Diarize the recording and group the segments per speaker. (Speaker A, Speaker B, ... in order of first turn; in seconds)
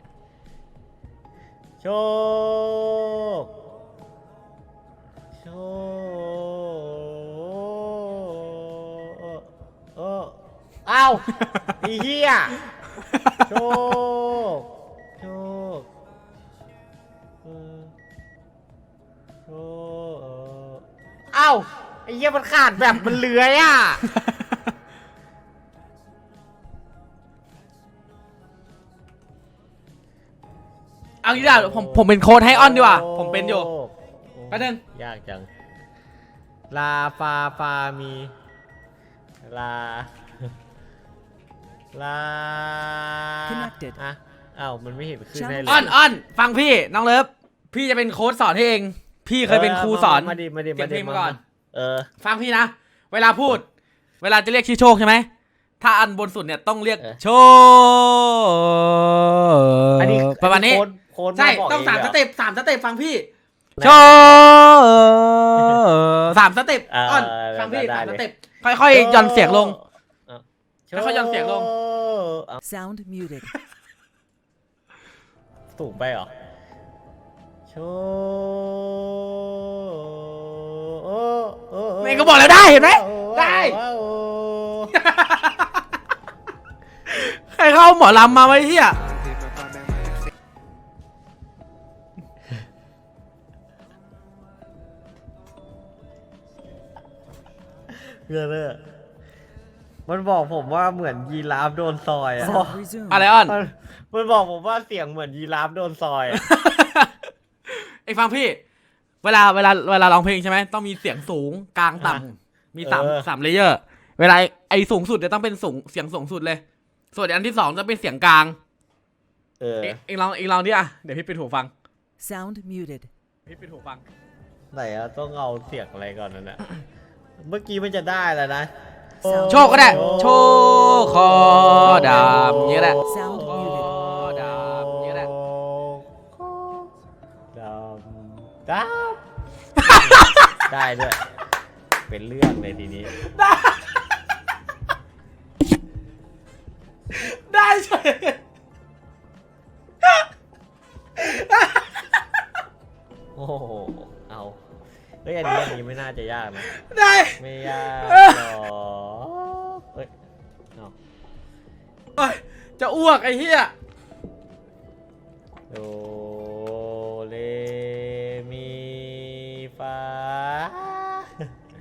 Speaker A: 1.8-3.5, 5.4-12.6, 13.5-15.9, 17.4-17.9, 19.5-24.0, 31.3-35.5, 36.7-38.3, 39.4-40.1, 41.9-46.0, 49.5-52.1, 60.0-62.2, 63.8-64.4, 66.9-68.2, 68.9-72.6, 75.8-76.3, 77.7-85.0, 98.0-98.8, 100.1-102.8, 103.5-106.4, 112.8-113.3, 119.6-120.0, 124.7-126.7, 127.4-128.7, 129.3-136.9, 137.5-139.2, 139.8-141.2, 142.1-143.1, 153.4-154.6, 155.2-156.7, 157.4-160.1, 165.7-171.3
Speaker B: 31.2-33.7, 34.5-34.8, 45.7-51.4, 52.2-53.6, 54.2-55.3, 55.8-60.8, 61.4-63.3, 63.8-69.8, 71.0-71.7, 82.0-83.8, 85.0-85.5, 87.1-89.0, 103.1-103.6, 106.3-107.1, 107.7-108.6, 109.2-116.6, 117.1-118.6, 119.8-121.7, 123.5-124.0, 129.5-135.3, 143.2-143.8, 147.2-148.4, 151.2-151.9, 156.7-157.4, 158.0-158.4, 162.2-163.7
Speaker C: 43.5-44.0, 45.3-46.0, 72.6-73.5, 102.4-103.3, 122.2-123.1, 129.2-130.2, 133.0-134.0